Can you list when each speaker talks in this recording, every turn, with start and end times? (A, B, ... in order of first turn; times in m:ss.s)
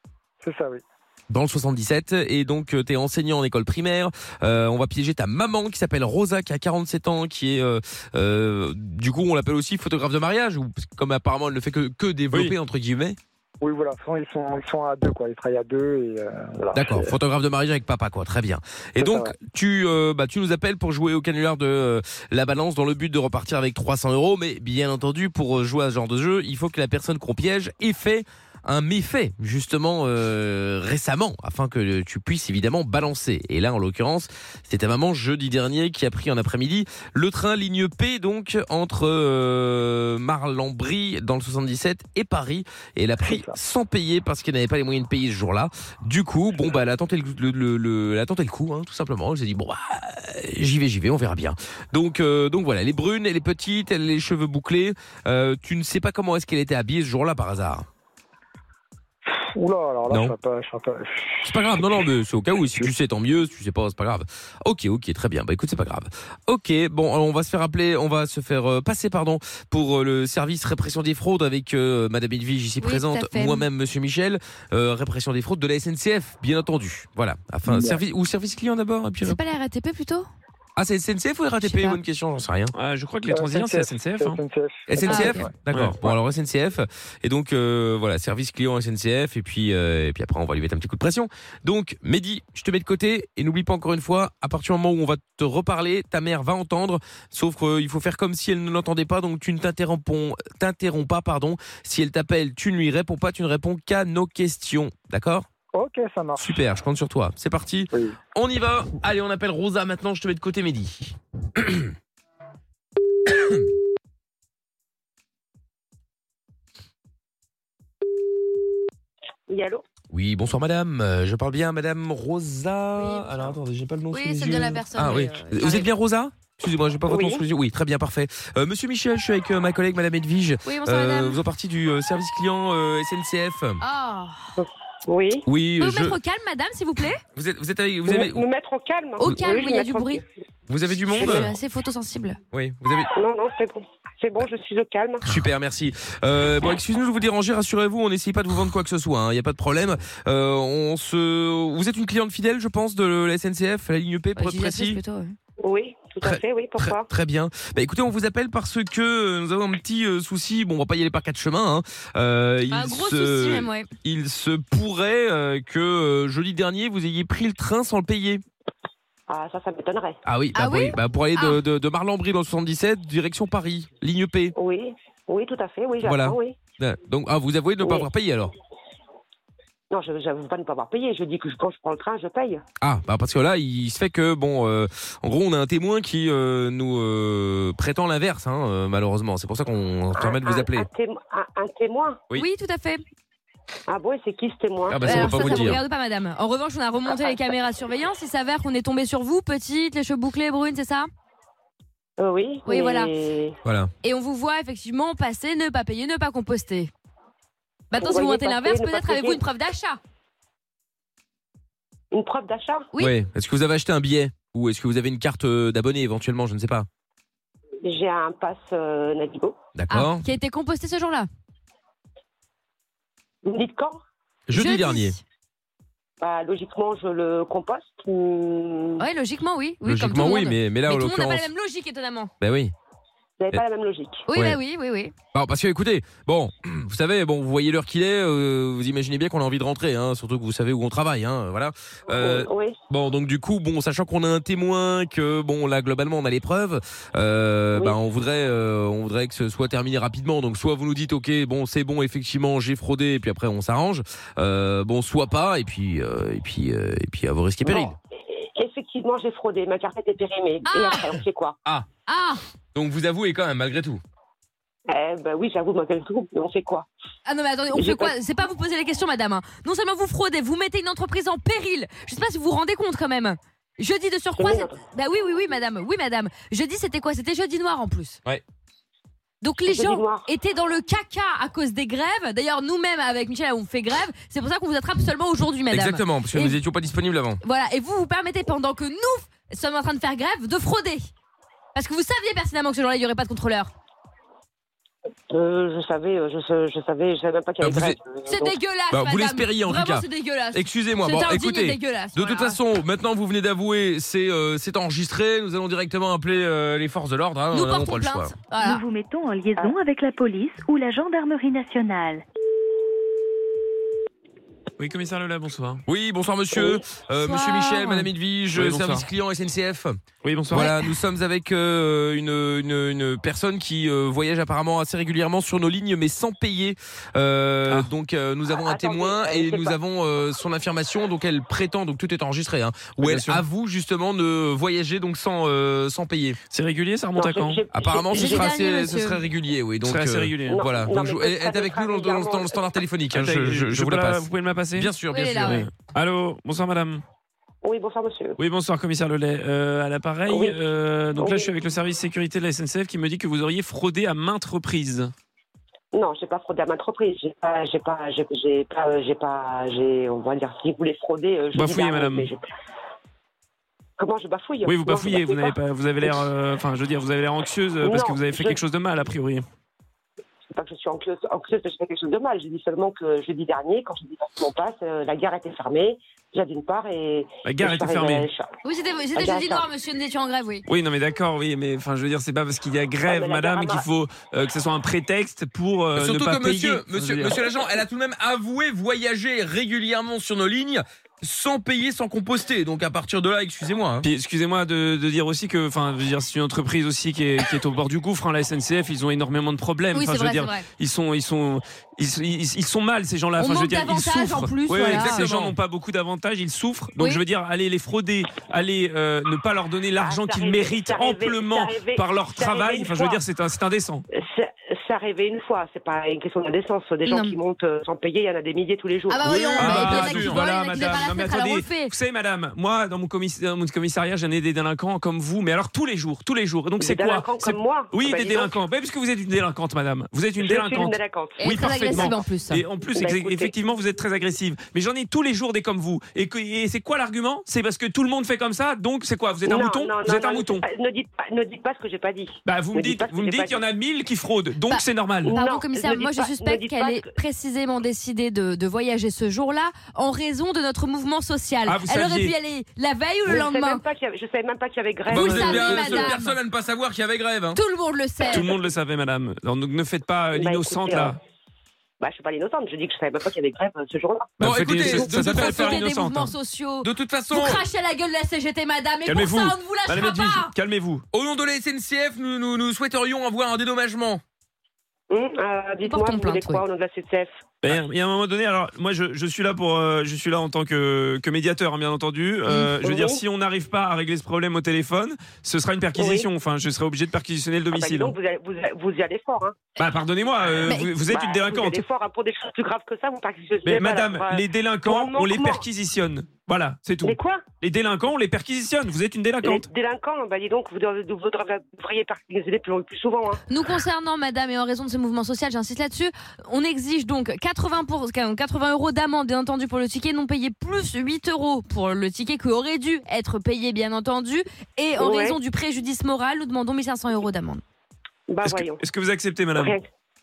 0:00.4-0:00.8 A
0:01.3-0:13.2 B
0:13.6-0:17.1 A
0:16.7-0:57.8 B
0:19.0-0:19.3 A
0:43.2-0:43.6 A
0:59.3-1:01.4 A
1:00.1-1:00.4 B
1:01.4-1:19.4 B
1:12.8-1:13.6 C
1:17.7-1:18.0 A
1:19.3-1:20.3 C
1:20.8-1:22.7 B
1:21.6-1:22.0 C
1:22.7-1:24.4 D
1:23.3-1:25.5 A
1:24.9-1:45.4 B
1:25.0-1:25.4 C
1:45.7-1:46.5 A
1:46.4-1:51.9 B
1:47.9-1:48.2 A
1:53.3-1:53.6 B
1:59.5-1:59.8 E
2:00.1-2:13.8 B
2:04.1-2:05.9 C
2:07.1-2:07.4 E
2:10.6-2:11.3 C
2:13.8-2:14.6 C
2:14.6-2:15.4 E
2:15.4-2:16.1 B
2:15.8-2:17.2 C
2:17.3-2:18.4 B
2:18.1-2:20.2 E
2:19.2-2:20.2 C
2:19.2-2:19.5 B
2:20.7-2:21.5 B
2:21.1-2:21.5 E
2:21.2-2:22.4 C
2:22.5-2:23.1 B
2:23.1-2:25.3 E
2:25.3-2:35.0 B
2:34.4-2:35.4 C
2:35.6-2:37.0 E
2:36.2-2:48.4 B
2:42.7-2:43.9 C
2:49.3-2:50.2 E
2:50.2-2:54.5 B
2:50.5-2:51.5 C
2:54.5-2:56.6 E
2:56.0-2:58.5 B
2:57.8-2:58.1 E
2:59.9-3:02.6 E
3:02.8-3:10.9 B
3:10.1-3:12.2 E
3:12.4-3:13.0 C
3:13.9-3:15.8 E
3:14.9-3:15.8 B
3:15.0-3:21.1 C
3:17.1-3:17.5 E
3:22.2-3:23.6 E
3:22.6-3:23.1 C
3:23.6-3:23.9 B
3:24.0-3:26.9 C
3:27.9-3:30.0 C
3:28.0-3:29.4 E
3:32.1-3:32.9 E
3:33.0-3:36.9 B
3:37.8-3:39.6 E
3:39.7-3:40.2 B
3:39.9-3:41.3 C
3:43.4-3:44.0 E
3:44.5-3:45.2 B
3:44.5-3:45.1 C
3:46.2-3:49.0 E
3:49.0-3:52.3 C
3:49.8-3:51.5 B
3:52.4-3:52.7 B
3:53.4-3:54.2 E
3:54.3-3:55.1 C
3:55.3-4:18.0 B
4:02.1-4:02.8 E
4:17.6-4:21.6 E
4:20.6-4:21.1 C
4:22.0-4:22.4 C
4:22.7-4:24.0 B
4:24.9-4:26.9 E
4:27.2-4:38.2 C
4:27.7-4:28.1 E
4:34.4-4:34.8 E
4:39.4-4:46.6 C
4:39.6-4:40.3 E
4:45.7-4:47.4 B
4:47.4-4:51.1 C
4:51.7-4:53.7 C
4:55.3-4:58.6 E
4:57.6-4:58.0 B
4:58.3-5:02.6 C
4:58.9-5:08.3 B
5:07.5-5:08.7 C
5:08.5-5:12.2 F
5:14.8-5:15.8 D
5:15.9-5:20.0 B
5:16.5-5:16.9 E
5:17.2-5:18.1 C
5:18.5-5:19.1 D
5:20.2-5:20.8 D
5:20.5-5:36.4 B
5:28.6-5:29.8 E
5:33.0-5:33.4 D
5:36.5-5:37.6 D
5:37.2-5:38.4 E
5:37.7-5:45.6 B
5:38.1-5:38.5 D
5:38.1-5:39.2 C
5:39.8-5:40.6 D
5:40.5-5:42.6 E
5:43.1-5:47.0 D
5:45.2-5:45.6 C
5:47.6-5:48.4 E
5:48.4-5:55.1 D
5:50.3-5:50.6 E
5:51.2-5:51.5 E
5:55.9-6:02.4 E
6:01.5-6:02.3 D
6:04.0-6:06.2 E
6:04.6-6:09.4 D
6:07.8-6:08.6 E
6:10.5-6:18.5 E
6:17.4-6:18.3 D
6:18.6-6:20.6 C
6:19.1-6:19.7 E
6:20.7-6:27.4 D
6:23.0-6:23.9 E
6:26.0-6:34.1 B
6:34.0-6:54.0 D
6:39.9-6:40.6 C
6:43.4-6:45.3 C
6:44.8-6:45.5 B
6:50.0-6:53.2 E
6:54.1-6:59.3 E
6:57.1-6:57.3 C
6:59.1-7:01.9 C
6:59.2-7:00.4 B
6:59.6-7:20.6 D
7:06.8-7:08.6 E
7:10.4-7:12.2 E
7:11.4-7:12.6 C
7:12.9-7:13.5 E
7:19.4-7:23.6 E
7:22.4-7:25.4 D
7:24.7-7:33.8 C
7:25.2-7:27.1 E
7:31.7-7:32.3 D
7:33.2-7:35.9 E
7:35.1-7:37.6 B
7:35.1-7:36.1 D
7:35.3-7:36.4 C
7:37.6-7:38.5 C
7:38.3-7:41.2 D
7:40.3-7:41.2 E
7:42.0-7:44.3 E
7:44.4-7:46.3 D
7:44.4-7:45.8 B
7:44.9-7:50.5 C
7:46.8-7:47.6 B
7:49.0-7:51.0 D
7:51.1-7:54.2 B
7:55.1-7:57.3 E
7:55.8-7:56.6 C
7:57.6-8:08.1 D
8:02.5-8:03.2 E
8:06.0-8:06.3 E
8:07.7-8:09.7 E
8:09.8-8:11.8 D
8:11.0-8:15.6 E
8:13.6-8:19.7 D
8:17.0-8:17.4 E
8:19.4-8:23.4 E
8:23.5-8:37.6 C
8:35.0-8:35.4 E
8:38.3-8:38.8 E
8:38.4-8:39.8 D
8:39.5-8:39.9 E